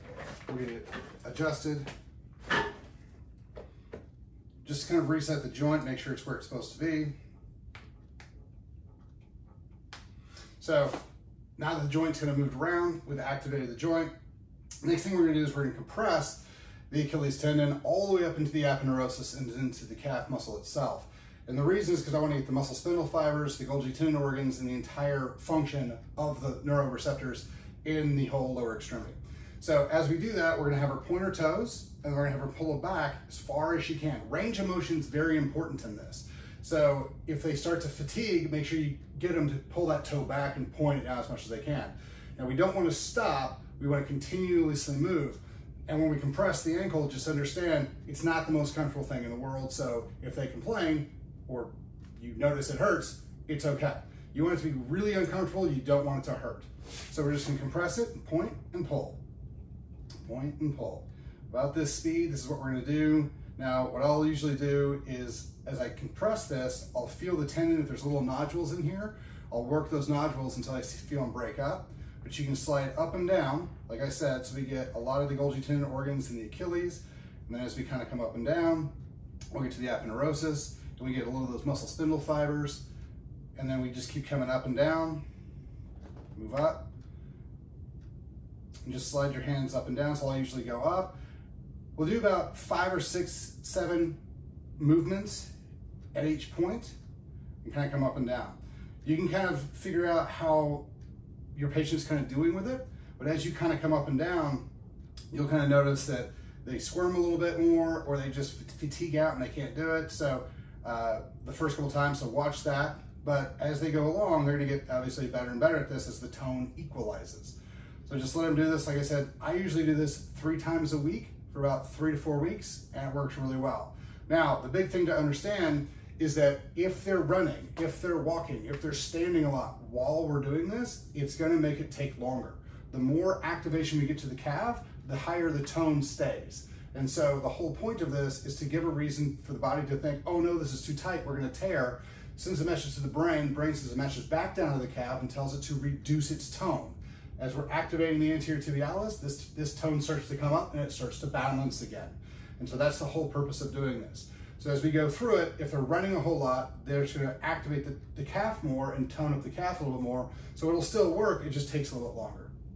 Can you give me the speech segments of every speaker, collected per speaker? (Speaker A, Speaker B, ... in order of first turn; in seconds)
Speaker A: 0.5-1.9, 4.6-7.1, 10.6-11.0, 11.6-14.1, 14.8-59.2, 60.2-78.9, 79.5-82.8, 83.5-85.2, 86.3-86.8, 88.8-91.1, 92.0-94.2, 94.8-95.5, 96.1-97.0, 97.6-100.8, 101.5-104.7, 105.3-162.5